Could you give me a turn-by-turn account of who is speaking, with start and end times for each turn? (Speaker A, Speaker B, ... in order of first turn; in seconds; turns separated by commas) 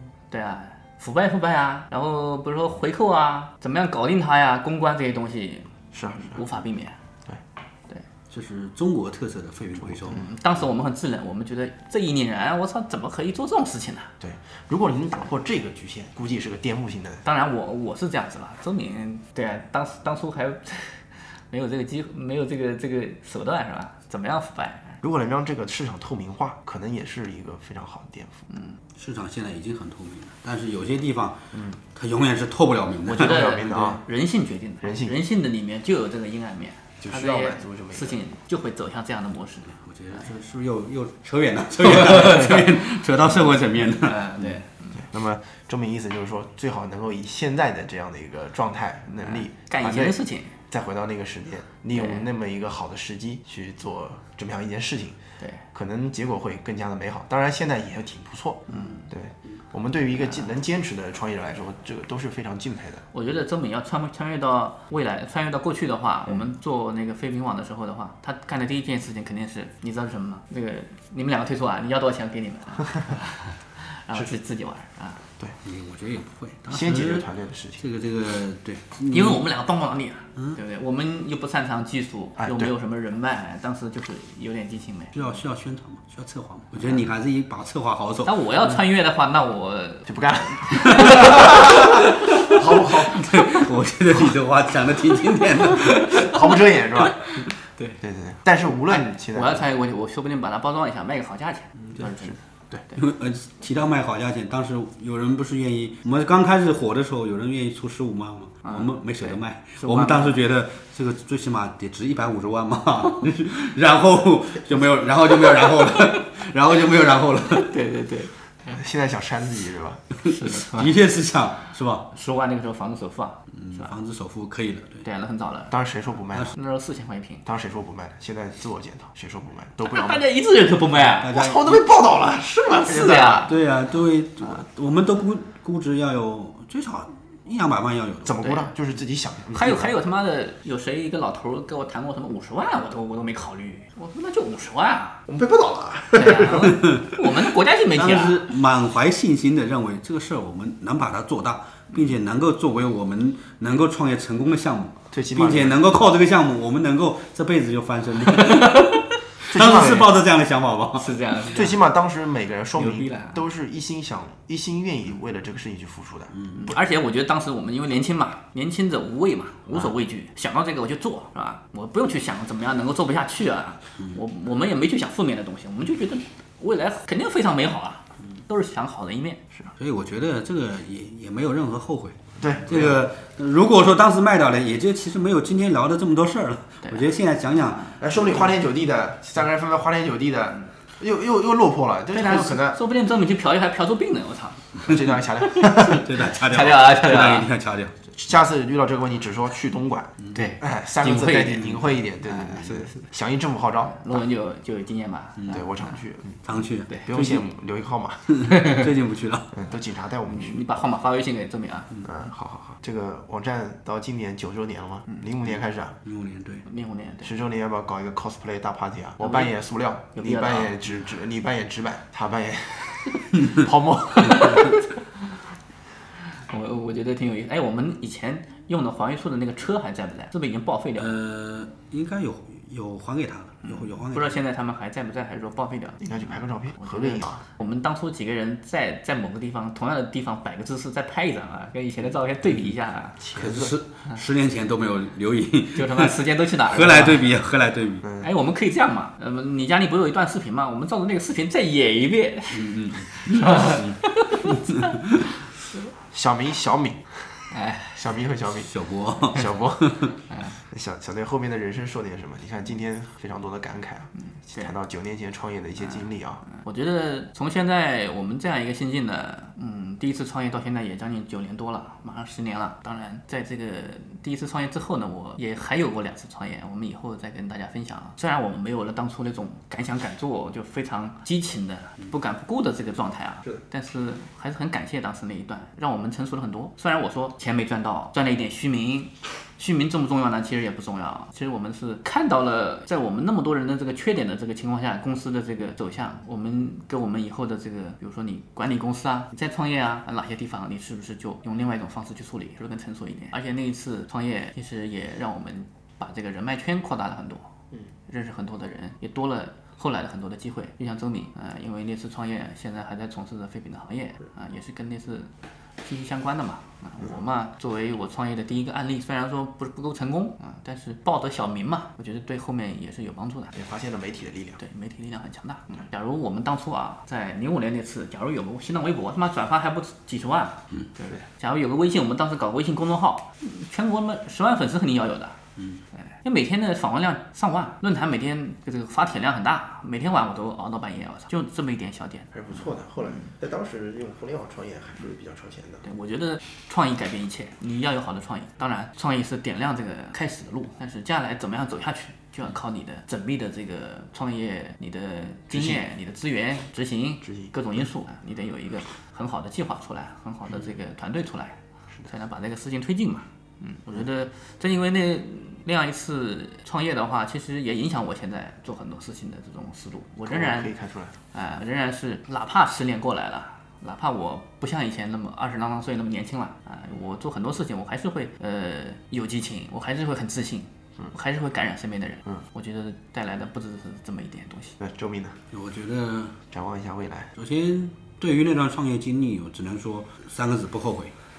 Speaker A: 0.3-7.0, Speaker B: 5.9-6.4, Speaker C: 8.3-10.2, Speaker B: 9.9-10.3, Speaker A: 10.1-14.1, Speaker B: 14.2-17.2, Speaker A: 17.2-25.0, Speaker B: 25.0-28.4, Speaker A: 28.5-28.8, Speaker C: 28.9-31.4, Speaker B: 31.5-31.8, Speaker C: 31.9-33.5, Speaker A: 33.1-40.3, Speaker B: 33.2-34.0, Speaker B: 34.8-35.2, Speaker B: 37.0-38.2, Speaker C: 39.7-44.6, Speaker A: 41.8-42.6, Speaker A: 44.0-45.0, Speaker B: 45.0-50.2, Speaker A: 49.2-50.5, Speaker B: 50.7-55.2, Speaker A: 51.9-52.3, Speaker B: 55.7-63.0, Speaker A: 58.7-59.1, Speaker A: 60.1-60.5, Speaker A: 63.1-75.2, Speaker C: 75.6-77.3, Speaker B: 76.7-77.8, Speaker C: 77.8-79.5, Speaker A: 79.1-85.1, Speaker B: 82.4-82.7, Speaker C: 85.1-88.4, Speaker A: 86.8-87.0, Speaker A: 88.2-92.6, Speaker B: 90.1-91.9, Speaker C: 90.9-91.3, Speaker B: 92.5-93.3, Speaker C: 93.2-96.4, Speaker A: 93.3-93.6, Speaker B: 96.2-97.2, Speaker A: 97.4-98.0, Speaker B: 98.0-99.7, Speaker A: 98.9-102.4, Speaker B: 102.3-102.8, Speaker C: 103.0-117.7, Speaker A: 108.7-110.4, Speaker A: 117.7-118.8, Speaker B: 118.7-120.0, Speaker A: 120.3-120.9, Speaker C: 120.5-122.1, Speaker A: 122.1-124.0, Speaker C: 123.5-125.0, Speaker A: 125.0-125.7, Speaker B: 125.7-126.5, Speaker A: 126.5-127.4, Speaker B: 127.5-130.2, Speaker A: 129.8-131.3, Speaker C: 131.2-131.9, Speaker B: 131.3-133.5, Speaker A: 132.8-133.5, Speaker C: 133.4-138.3, Speaker B: 138.2-139.9, Speaker A: 139.5-145.2, Speaker B: 145.3-146.8, Speaker A: 146.2-148.4, Speaker C: 146.6-147.2, Speaker C: 147.9-158.8, Speaker B: 155.1-155.8, Speaker A: 158.5-159.0, Speaker B: 159.5-160.1, Speaker C: 159.5-161.1, Speaker A: 161.0-161.8, Speaker B: 161.6-166.3, Speaker A: 162.8-163.4, Speaker C: 166.3-166.7, Speaker A: 166.6-179.4, Speaker C: 179.8-188.5, Speaker B: 182.4-183.0, Speaker A: 187.7-188.0, Speaker B: 188.0-192.8, Speaker A: 192.1-194.7, Speaker B: 194.9-196.1, Speaker A: 195.5-197.5, Speaker C: 195.7-198.0, Speaker B: 198.2-204.2, Speaker C: 200.2-200.5, Speaker A: 200.3-201.7, Speaker C: 201.1-202.8, Speaker A: 202.4-202.9, Speaker A: 203.9-205.6, Speaker C: 205.4-205.6, Speaker B: 205.5-206.4, Speaker C: 206.4-207.4, Speaker B: 207.1-208.4, Speaker C: 208.3-209.5, Speaker B: 209.5-210.7, Speaker A: 210.3-211.9, Speaker B: 212.0-216.0, Speaker C: 216.1-216.7, Speaker A: 216.7-217.3, Speaker B: 217.2-224.7, Speaker A: 219.2-219.5, Speaker A: 220.1-220.7, Speaker A: 224.2-225.0, Speaker A: 226.5-231.1, Speaker C: 231.0-234.4, Speaker A: 233.6-243.2, Speaker B: 236.0-237.4, Speaker B: 243.2-243.8, Speaker C: 243.3-246.2, Speaker A: 245.8-247.2, Speaker C: 246.7-248.0, Speaker B: 248.0-248.3, Speaker A: 248.2-252.7, Speaker C: 252.5-254.9, Speaker A: 253.2-254.3, Speaker B: 256.1-258.7, Speaker A: 257.5-258.0, Speaker C: 258.6-260.1, Speaker B: 259.3-260.1, Speaker A: 260.3-260.6, Speaker B: 260.7-266.4, Speaker A: 265.8-307.5, Speaker A: 308.1-315.3, Speaker A: 315.8-323.6, Speaker B: 323.5-324.6, Speaker A: 324.6-335.4, Speaker C: 335.6-335.8, Speaker A: 335.9-343.3, Speaker B: 342.3-345.8, Speaker A: 345.8-361.6, Speaker B: 355.5-355.8, Speaker B: 357.2-357.5, Speaker A: 362.1-370.7, Speaker B: 370.3-371.1, Speaker A: 371.3-384.8, Speaker B: 384.8-385.4, Speaker C: 385.5-386.4, Speaker B: 386.5-387.3, Speaker C: 387.4-391.1